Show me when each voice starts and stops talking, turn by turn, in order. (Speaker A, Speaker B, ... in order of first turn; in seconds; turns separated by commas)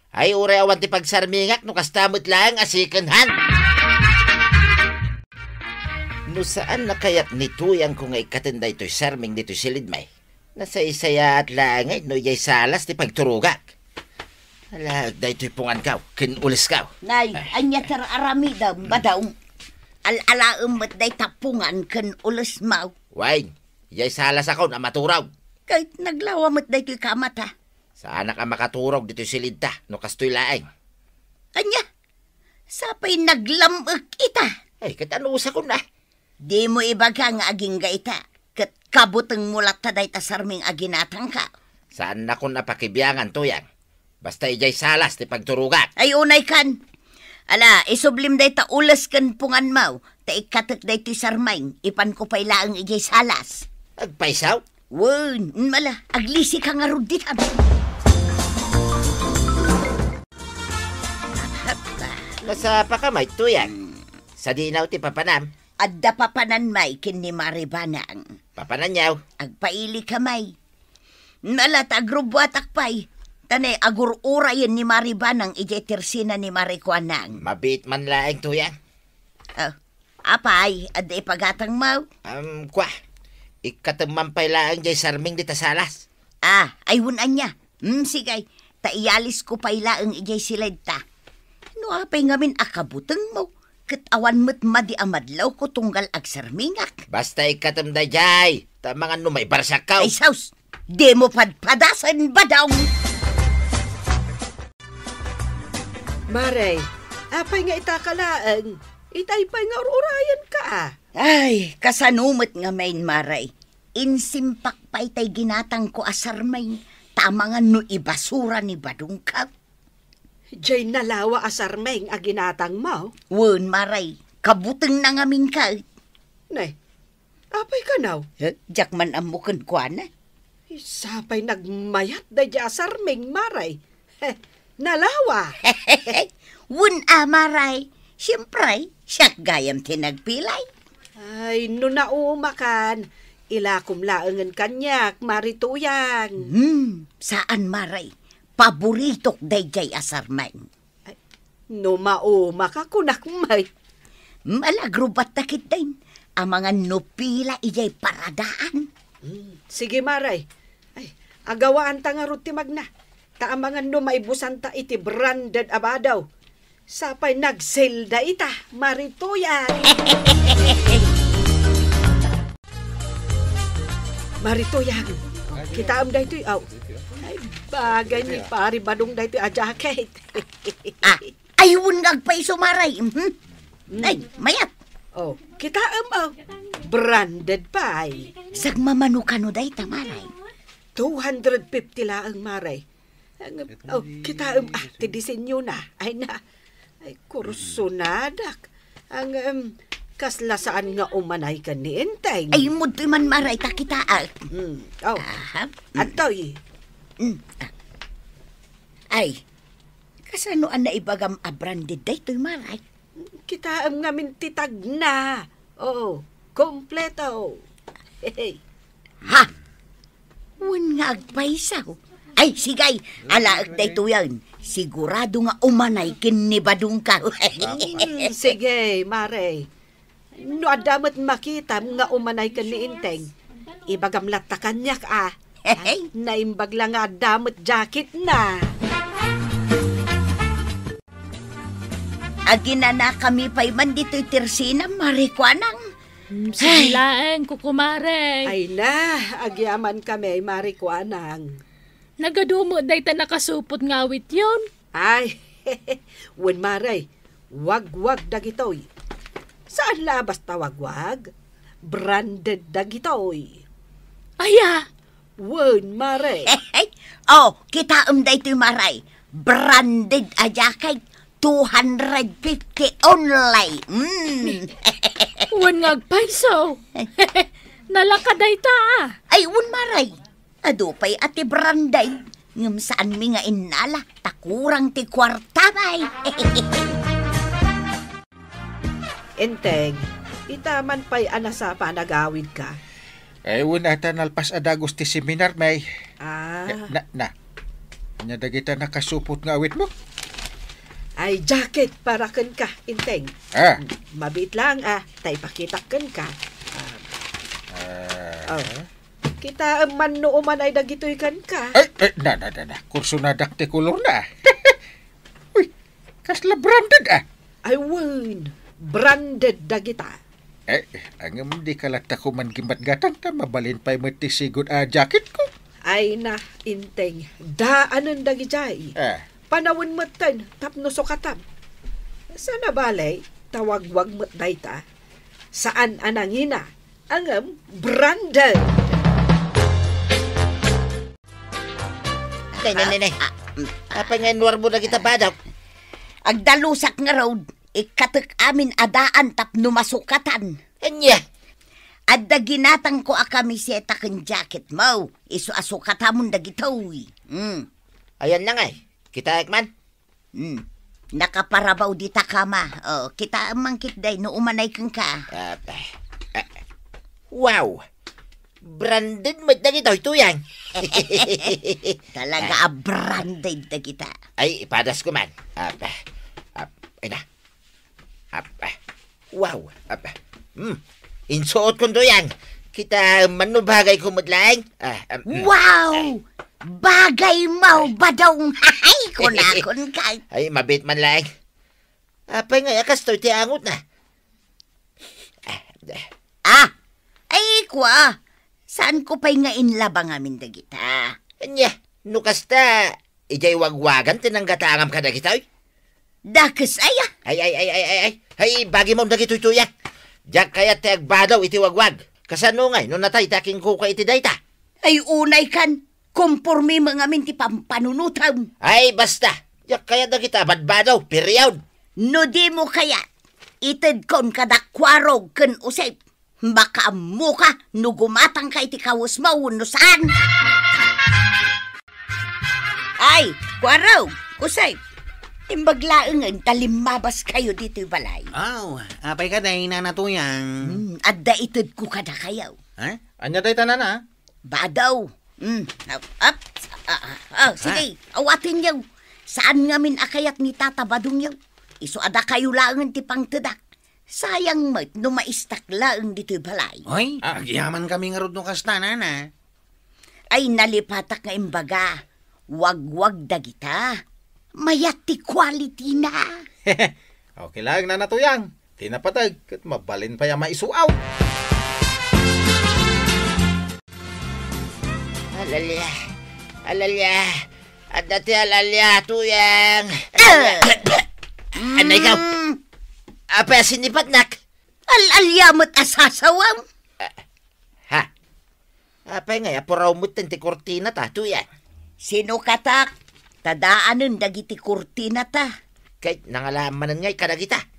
Speaker A: 0.2-3.3, Speaker A: 6.3-13.6, Speaker A: 14.7-16.9, Speaker B: 17.0-19.3, Speaker B: 20.1-22.9, Speaker A: 23.1-25.3, Speaker B: 25.7-27.5, Speaker A: 28.0-30.7, Speaker B: 31.6-31.8, Speaker B: 32.7-34.5, Speaker A: 34.8-35.8, Speaker B: 36.5-41.5, Speaker A: 42.0-43.6, Speaker A: 44.2-45.9, Speaker B: 46.0-46.8, Speaker B: 47.5-53.7, Speaker A: 54.0-54.6, Speaker B: 54.9-57.5, Speaker B: 61.3-62.4, Speaker A: 62.4-63.7, Speaker A: 64.4-65.5, Speaker B: 65.8-68.3, Speaker A: 68.6-69.2, Speaker B: 69.4-70.5, Speaker B: 71.5-77.4, Speaker A: 77.4-78.8, Speaker B: 79.6-82.1, Speaker A: 82.3-82.9, Speaker A: 83.7-86.0, Speaker B: 86.5-91.0, Speaker B: 91.8-97.0, Speaker A: 97.1-100.1, Speaker B: 100.0-102.9, Speaker C: 106.3-110.9, Speaker B: 111.2-119.5, Speaker C: 120.6-123.1, Speaker B: 123.3-125.8, Speaker C: 127.5-128.3, Speaker B: 128.4-130.1, Speaker C: 130.7-135.6, Speaker B: 135.6-140.7, Speaker C: 141.2-146.5, Speaker B: 146.4-150.7, Speaker C: 151.7-153.7, Speaker B: 154.5-158.9, Speaker C: 159.2-160.4, Speaker C: 161.0-162.9, Speaker C: 163.4-166.2, Speaker C: 166.9-170.7, Speaker C: 174.4-176.7, Speaker C: 177.2-181.2, Speaker B: 181.0-183.3, Speaker C: 183.9-184.2, Speaker B: 184.0-184.7, Speaker C: 185.2-188.3, Speaker B: 188.5-190.3, Speaker C: 191.0-192.8, Speaker C: 193.4-196.4, Speaker C: 197.0-202.7, Speaker B: 202.5-204.4, Speaker C: 204.5-205.2, Speaker B: 205.2-206.1, Speaker C: 206.0-206.6, Speaker B: 207.2-207.7, Speaker B: 209.1-209.4, Speaker B: 210.3-212.8, Speaker C: 213.2-217.6, Speaker C: 218.2-218.6, Speaker B: 220.6-228.3, Speaker C: 227.7-229.7, Speaker C: 230.4-233.3, Speaker C: 233.9-238.7, Speaker B: 235.7-236.1, Speaker B: 242.5-245.8, Speaker D: 246.3-248.5, Speaker B: 246.6-247.0, Speaker C: 248.5-251.5, Speaker D: 252.2-254.7, Speaker C: 255.0-257.0, Speaker C: 257.5-258.9, Speaker C: 259.7-261.2, Speaker C: 261.9-263.6, Speaker D: 264.4-264.8, Speaker C: 265.4-266.6, Speaker B: 266.5-275.5, Speaker D: 275.5-279.1, Speaker B: 279.3-286.9, Speaker C: 289.4-292.8, Speaker E: 293.5-295.8, Speaker C: 296.2-296.9, Speaker E: 296.7-297.3, Speaker E: 298.2-299.9, Speaker C: 301.2-307.0, Speaker E: 303.6-303.8, Speaker E: 307.7-308.9, Speaker C: 309.4-311.8, Speaker E: 311.8-314.8, Speaker E: 316.2-317.2, Speaker C: 317.7-320.2, Speaker E: 320.7-325.5, Speaker C: 325.9-328.9, Speaker E: 329.0-329.2, Speaker C: 329.5-331.4, Speaker C: 332.4-334.8, Speaker C: 335.6-338.8, Speaker A: 342.6-343.2, Speaker B: 342.6-343.0, Speaker B: 343.6-344.0, Speaker A: 343.9-345.4, Speaker B: 346.3-350.6, Speaker A: 350.8-351.2, Speaker B: 352.1-357.7, Speaker A: 358.2-359.7, Speaker B: 360.4-360.6, Speaker B: 361.2-365.2, Speaker A: 365.3-366.5, Speaker A: 367.3-367.8, Speaker A: 368.6-372.6, Speaker B: 370.9-371.5, Speaker B: 372.2-374.1, Speaker A: 374.4-376.0, Speaker A: 376.6-377.2, Speaker A: 378.3-378.8, Speaker A: 379.3-385.5, Speaker B: 385.3-390.2, Speaker A: 389.2-389.6, Speaker A: 390.3-391.3, Speaker A: 392.3-393.8, Speaker A: 395.5-396.1, Speaker B: 396.5-396.7, Speaker B: 397.3-398.2, Speaker B: 398.7-401.2, Speaker A: 401.4-405.4, Speaker B: 406.3-407.1, Speaker A: 407.3-409.7, Speaker A: 410.3-414.4, Speaker B: 414.8-418.5, Speaker A: 418.6-421.6, Speaker B: 422.0-423.0, Speaker B: 423.6-430.1, Speaker B: 433.0-434.8, Speaker B: 435.5-438.3, Speaker F: 438.4-440.8, Speaker B: 440.6-442.6, Speaker E: 443.2-444.0, Speaker B: 444.5-448.8, Speaker B: 449.3-453.6, Speaker B: 454.1-456.9, Speaker F: 456.9-459.3, Speaker B: 460.3-462.0, Speaker B: 462.5-464.0, Speaker B: 464.6-466.4, Speaker E: 466.7-470.9, Speaker A: 475.4-475.9, Speaker A: 476.7-481.0, Speaker B: 480.2-480.8, Speaker B: 481.6-482.6, Speaker A: 481.6-482.2, Speaker A: 483.3-484.4, Speaker B: 484.9-486.6, Speaker A: 489.1-491.4, Speaker B: 492.1-492.9, Speaker B: 493.4-495.5, Speaker A: 496.0-497.6